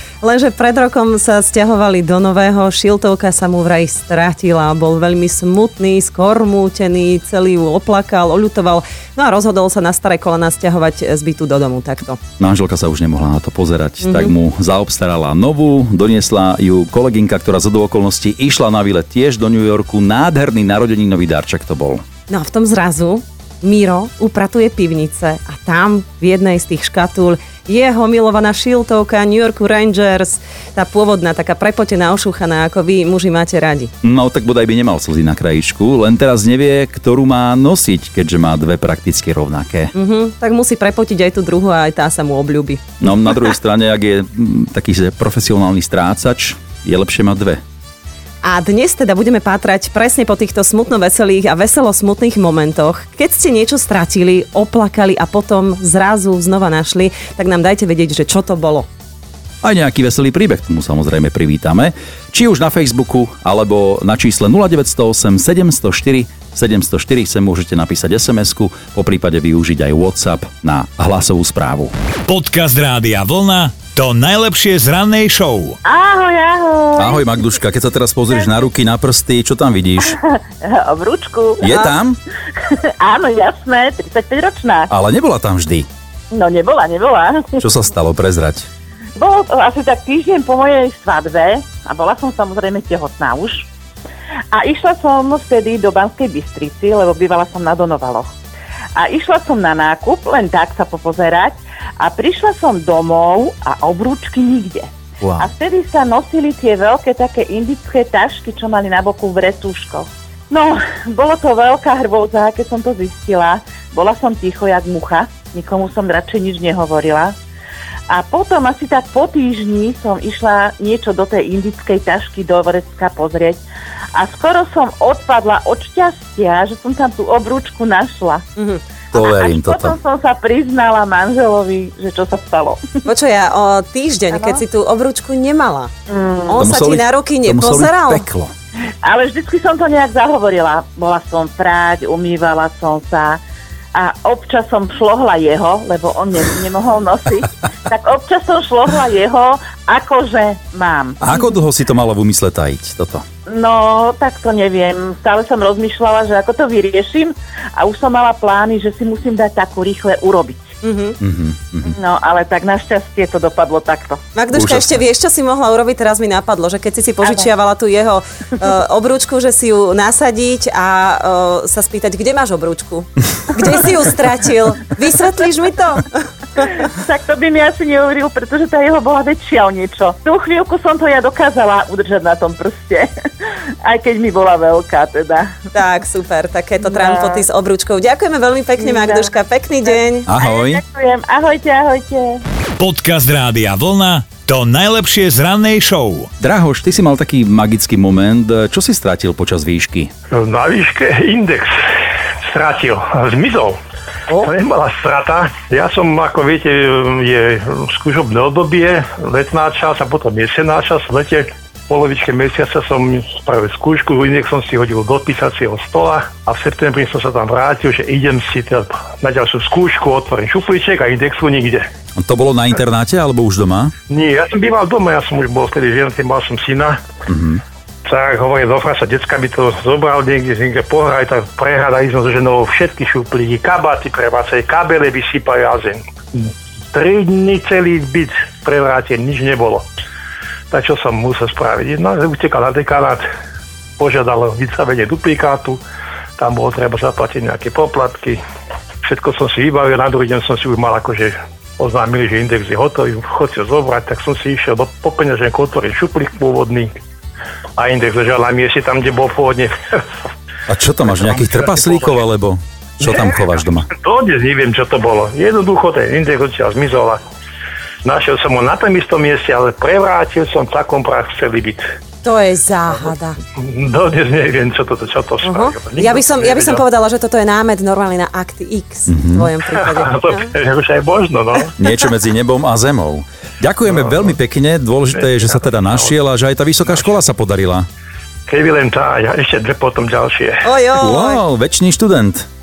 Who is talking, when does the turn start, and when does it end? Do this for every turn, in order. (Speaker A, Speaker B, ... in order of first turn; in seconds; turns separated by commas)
Speaker A: 0.2-12.2, Speaker B: 12.4-22.0, Speaker A: 14.0-14.3, Speaker A: 22.3-33.9, Speaker B: 34.0-39.9, Speaker A: 39.9-43.3, Speaker B: 43.0-47.6, Speaker A: 48.4-58.9, Speaker B: 59.6-71.9, Speaker C: 72.3-75.8, Speaker D: 75.8-77.3, Speaker B: 77.0-80.2, Speaker D: 80.2-81.9, Speaker B: 81.6-82.2, Speaker D: 83.0-84.9, Speaker B: 84.9-85.9, Speaker D: 86.3-87.6, Speaker B: 87.6-88.7, Speaker D: 89.2-93.7, Speaker D: 94.5-98.3, Speaker D: 99.0-117.3, Speaker B: 105.2-105.5, Speaker D: 118.1-123.6, Speaker D: 124.2-128.4, Speaker A: 128.6-128.8, Speaker D: 129.1-132.8, Speaker B: 129.1-130.0, Speaker A: 133.1-135.9, Speaker D: 134.3-134.6, Speaker D: 136.1-136.6, Speaker A: 136.5-138.2, Speaker B: 136.6-138.5, Speaker D: 139.0-143.4, Speaker D: 143.9-151.4, Speaker B: 151.2-153.2, Speaker D: 153.5-160.7, Speaker A: 160.8-161.2, Speaker B: 161.2-161.9, Speaker D: 161.9-164.2, Speaker A: 164.3-176.2, Speaker B: 164.5-165.0, Speaker D: 176.6-183.1, Speaker D: 183.8-185.5, Speaker A: 185.7-190.3, Speaker D: 186.8-187.5, Speaker D: 188.8-189.3, Speaker D: 189.9-192.4, Speaker B: 190.3-190.8, Speaker C: 192.8-196.3, Speaker B: 196.4-200.1, Speaker E: 200.3-201.7, Speaker E: 202.5-203.8, Speaker E: 204.3-221.9, Speaker B: 222.2-223.9, Speaker E: 224.1-227.0, Speaker B: 227.3-227.6, Speaker E: 228.1-239.8, Speaker E: 240.7-243.2, Speaker E: 244.0-245.8, Speaker E: 246.4-248.4, Speaker E: 249.0-257.0, Speaker E: 257.8-259.7, Speaker B: 260.7-263.9, Speaker E: 261.1-262.2, Speaker E: 263.0-267.2, Speaker E: 268.1-271.8, Speaker A: 272.2-273.4, Speaker E: 273.6-276.8, Speaker A: 275.4-280.5, Speaker B: 279.1-279.5, Speaker E: 279.8-281.7, Speaker B: 281.8-287.9, Speaker E: 288.5-290.7, Speaker A: 290.6-291.4, Speaker B: 291.0-292.5